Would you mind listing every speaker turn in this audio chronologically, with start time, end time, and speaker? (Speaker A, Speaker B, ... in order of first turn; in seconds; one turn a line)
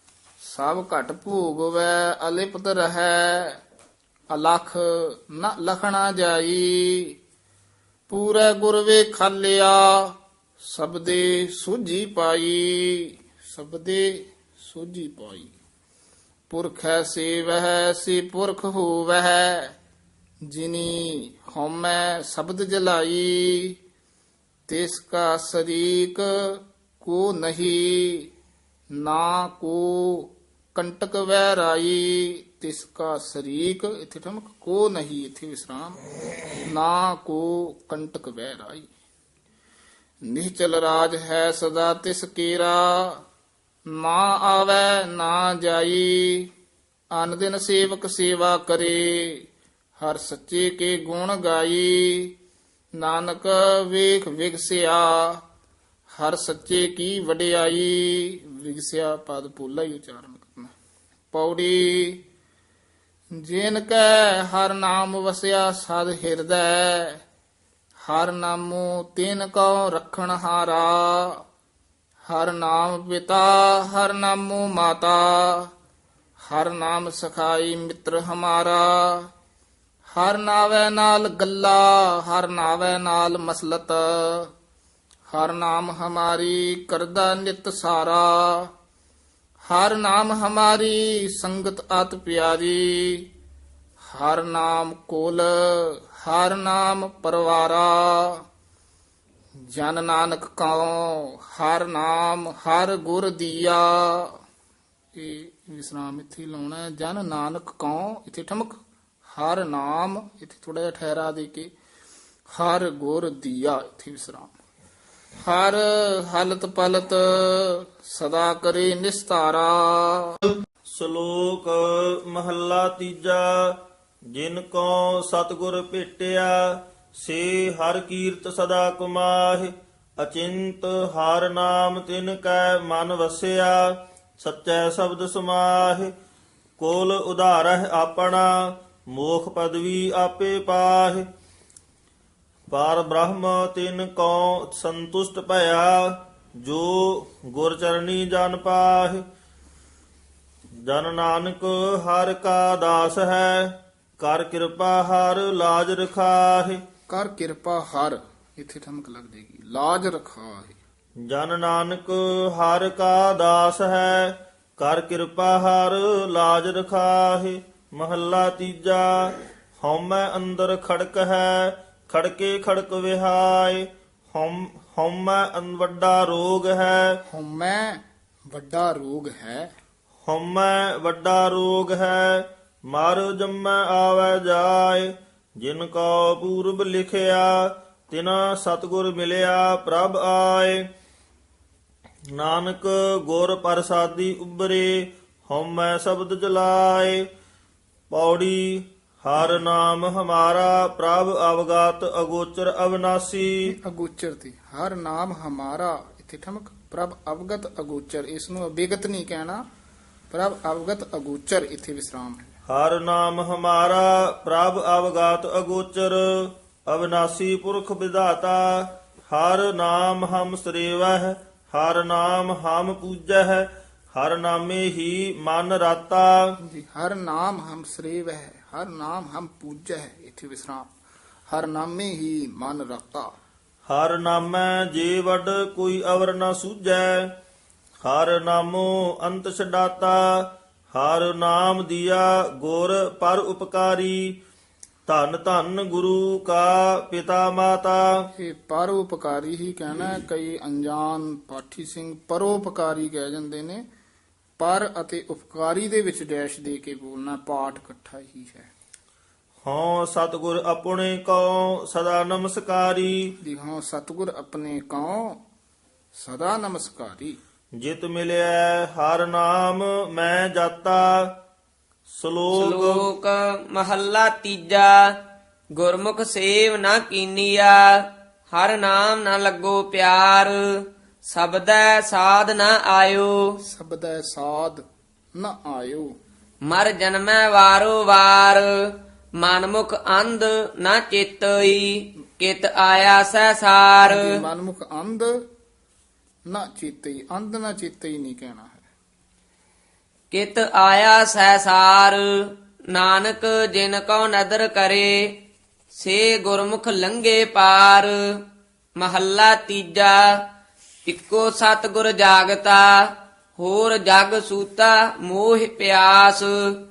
Speaker A: 0.4-3.6
Speaker A: 4.3-7.2
Speaker A: 8.1-15.5
Speaker A: 16.5-19.7
Speaker A: 20.5-23.8
Speaker A: 24.7-28.3
Speaker A: 29.0-36.0
Speaker A: 36.6-38.9
Speaker A: 40.3-43.2
Speaker A: 43.9-46.5
Speaker A: 47.1-49.5
Speaker A: 50.0-52.3
Speaker A: 53.0-55.4
Speaker A: 56.1-60.7
Speaker A: 61.3-62.2
Speaker A: 63.4-67.2
Speaker A: 68.0-71.4
Speaker A: 72.3-75.7
Speaker A: 76.4-79.3
Speaker A: 80.1-84.5
Speaker A: 85.3-88.7
Speaker A: 89.7-93.3
Speaker A: 94.0-98.4
Speaker A: 99.7-104.3
Speaker A: 105.2-111.7
Speaker A: 112.5-114.5
Speaker A: 115.4-120.4
Speaker B: 120.9-123.8
Speaker B: 124.3-133.9
Speaker B: 134.4-136.1
Speaker B: 136.8-138.5
Speaker B: 139.1-141.3
Speaker B: 142.7-149.2
Speaker B: 150.9-156.8
Speaker A: 157.1-160.8
Speaker B: 161.3-177.1
Speaker A: 177.3-179.7
Speaker B: 180.2-190.8
Speaker B: 192.4-197.2
Speaker B: 198.1-203.5
Speaker A: 203.7-209.6
Speaker A: 210.3-212.5
Speaker B: 212.7-226.3
Speaker A: 226.6-230.9
Speaker A: 231.5-233.3
Speaker B: 233.9-237.3
Speaker B: 238.0-240.3
Speaker B: 240.9-244.2
Speaker B: 245.1-248.1
Speaker A: 248.4-253.8
Speaker A: 254.6-258.7
Speaker B: 259.6-263.3
Speaker A: 263.4-265.4
Speaker A: 266.1-267.4
Speaker B: 267.8-271.3
Speaker B: 272.1-273.1
Speaker C: 272.5-275.2
Speaker C: 275.8-283.6
Speaker A: 283.6-284.8
Speaker A: 285.4-286.1
Speaker C: 286.7-294.4
Speaker A: 294.1-295.3
Speaker A: 296.5-298.8
Speaker C: 300.3-305.3
Speaker C: 305.9-308.1
Speaker C: 309.0-310.4
Speaker C: 311.1-316.6